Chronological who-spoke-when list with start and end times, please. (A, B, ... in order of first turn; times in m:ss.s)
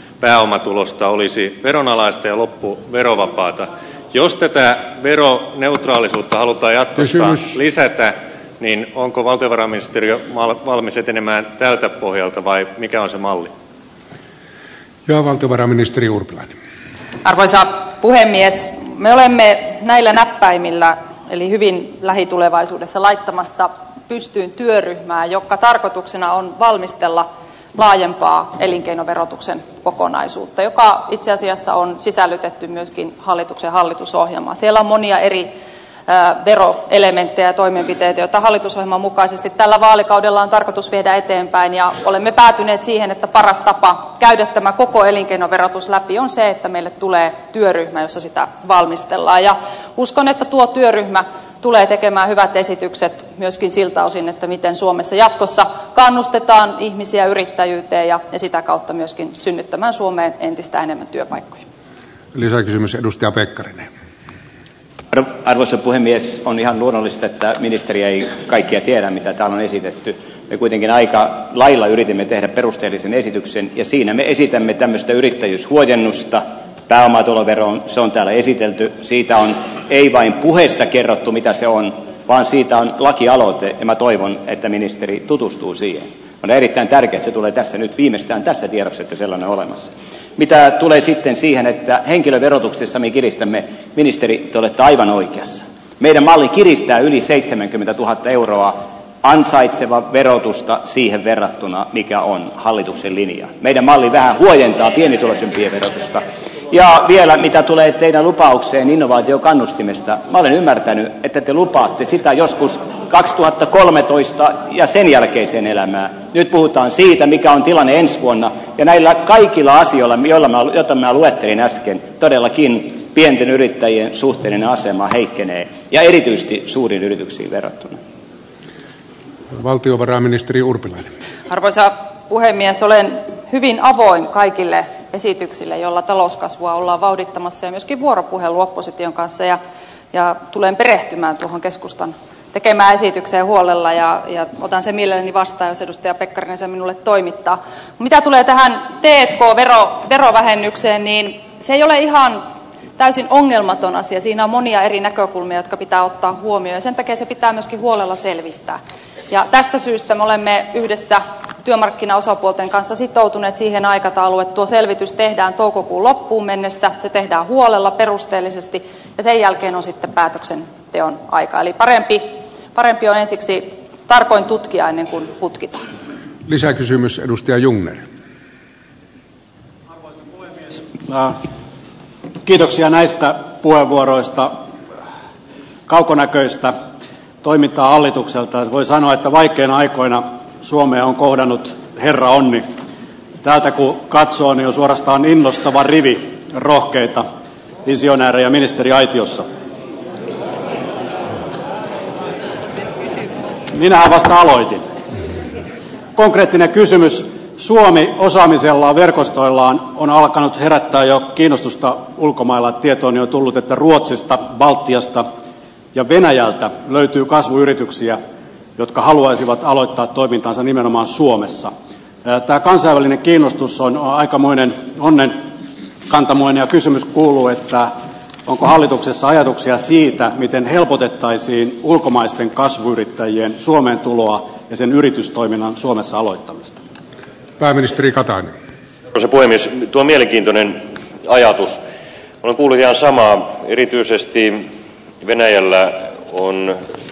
0:00.2-0:13.5 A
0:07.0-0:07.5 B
0:15.1-0:16.6 B
0:17.2-0:35.5 C
0:36.1-1:01.6 C
1:02.3-1:03.9 B
1:05.1-2:08.0 D
2:09.6-2:11.1 B
2:11.5-2:19.6 C
2:20.1-2:32.4 C
2:33.0-2:38.8 C
2:39.3-2:55.8 C
2:56.5-2:58.0 B
3:01.1-3:01.4 E
3:02.5-3:04.6 E
3:05.9-3:06.8 E
3:07.4-3:12.7 E
3:13.4-3:17.3 E
3:17.9-3:19.5 E
3:23.7-3:24.9 E
3:26.2-3:35.3 E
3:35.9-3:38.2 E
3:38.8-3:41.7 E
3:42.2-3:45.5 E
3:46.1-3:56.8 E
3:57.6-3:58.5 B
3:59.1-4:01.8 F
4:02.4-4:04.7 F
4:05.2-4:06.8 F